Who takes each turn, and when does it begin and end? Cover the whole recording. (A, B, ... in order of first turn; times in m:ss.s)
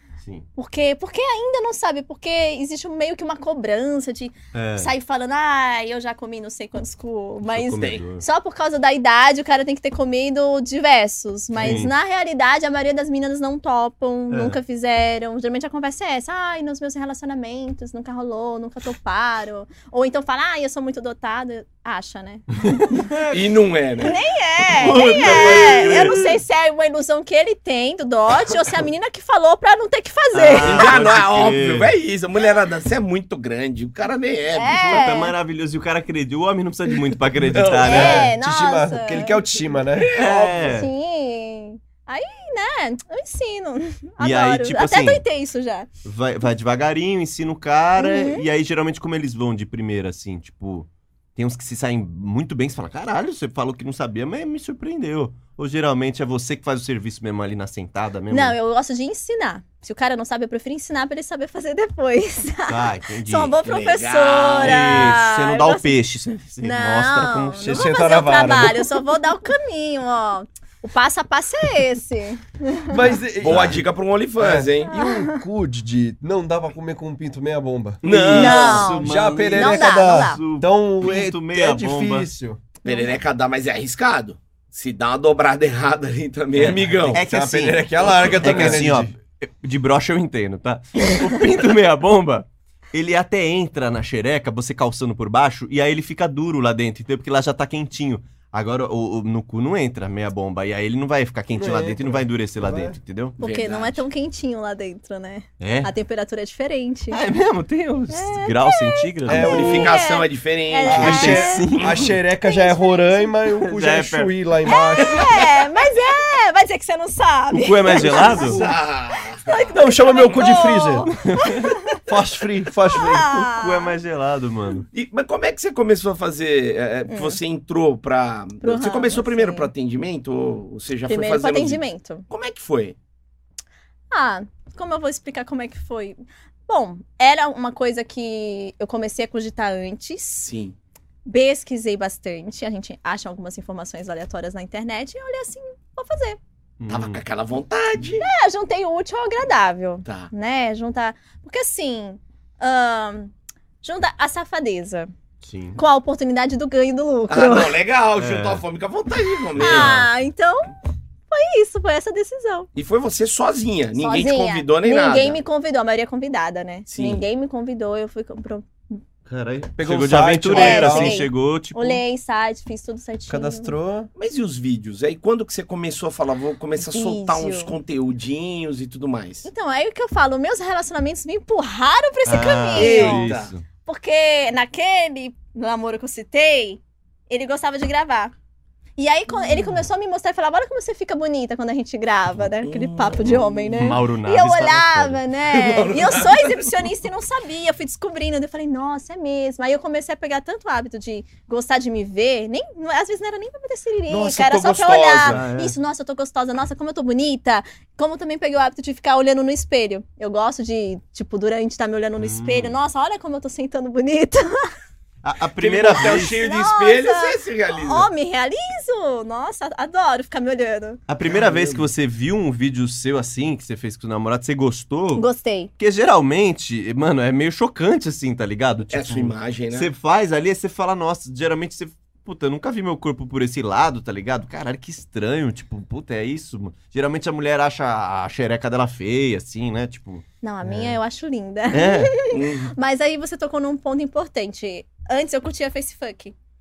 0:00.6-0:23.1 A
0:04.5-0:04.9 B
0:07.4-0:08.2 B
0:11.5-0:11.9 B
0:14.3-0:14.6 B
0:22.8-0:23.4 B
0:23.3-0:24.2 C
0:24.0-0:30.9 A
0:24.7-0:26.4 B
0:25.3-0:25.7 C
0:30.3-0:31.9 B
0:30.6-0:35.0 C
0:34.5-0:35.3 A
0:34.7-0:38.3 B
0:37.4-0:38.2 C
0:37.8-0:39.4 A
0:37.8-0:40.3 D
0:40.0-0:40.6 C
0:40.1-0:40.9 B
0:40.5-0:45.9 A
0:44.2-0:45.2 B
0:46.0-0:58.6 B
0:48.0-0:48.4 A
0:58.3-1:05.9 A
1:02.7-1:03.6 B
1:03.6-1:05.1 C
1:04.6-1:07.8 B
1:06.6-1:13.0 A
1:07.6-1:08.9 D
1:12.9-1:13.8 D
1:13.4-1:14.9 C
1:13.4-1:13.8 B
1:14.4-1:22.6 D
1:14.9-1:15.4 A
1:18.0-1:22.3 B
1:18.0-1:18.9 C
1:18.3-1:20.4 A
1:22.8-1:27.2 C
1:22.8-1:23.2 A
1:26.6-1:43.4 B
1:27.1-1:29.1 D
1:28.0-1:28.8 C
1:41.6-1:43.0 D
1:43.4-1:44.0 C
1:43.4-1:47.2 A
1:45.6-1:45.9 B
1:47.1-1:49.9 B
1:48.1-1:51.7 A
1:49.2-1:50.0 D
1:49.3-1:51.4 C
1:50.8-1:55.4 D
1:50.9-1:52.1 B
1:52.4-1:53.3 A
1:53.5-1:54.3 B
1:54.6-1:58.6 A
1:55.0-1:55.3 C
1:57.5-1:58.6 B
1:58.0-1:58.7 D
1:58.4-1:59.6 C
1:59.4-2:02.0 A
1:59.5-2:01.1 D
2:00.1-2:00.3 C
2:01.1-2:01.7 B
2:02.0-2:03.3 D
2:02.9-2:03.9 A
2:02.9-2:04.9 B
2:04.9-2:13.0 C
2:07.1-2:07.4 A
2:08.6-2:09.7 A
2:11.1-2:12.2 A
2:14.1-2:20.5 A
2:20.4-2:20.8 C
2:21.2-2:26.4 A
2:26.8-2:27.2 B
2:26.9-2:28.2 C
2:28.2-2:35.1 A
2:30.0-2:30.3 C
2:35.4-2:35.8 B
2:35.8-2:37.8 A
2:37.3-2:39.9 C
2:38.2-2:38.6 B
2:39.6-2:40.1 B
2:39.6-2:40.7 A
2:41.3-2:42.7 A
2:42.7-2:45.4 C
2:44.0-2:49.0 A
2:46.9-2:47.2 C
2:49.2-2:52.0 B
2:49.8-2:51.2 D
2:50.5-2:53.7 A
2:53.3-2:54.1 D
2:54.2-2:59.5 C
2:56.8-2:57.8 A
2:59.4-3:03.3 A
3:02.2-3:03.6 B
3:02.7-3:03.5 C
3:03.8-3:08.3 A
3:09.0-3:34.5 A
3:12.6-3:13.7 C
3:13.2-3:15.2 B
3:15.5-3:16.7 C
3:24.1-3:25.4 C
3:25.3-3:25.7 B
3:32.2-3:32.8 B
3:35.2-3:36.4 B
3:35.6-3:38.1 C
3:36.2-3:41.0 A
3:41.1-3:45.3 B
3:41.2-3:41.9 C
3:45.2-3:45.7 A
3:45.8-4:01.0 B
3:48.9-3:49.9 C
4:00.4-4:06.3 A
4:01.7-4:02.1 B
4:02.3-4:02.7 C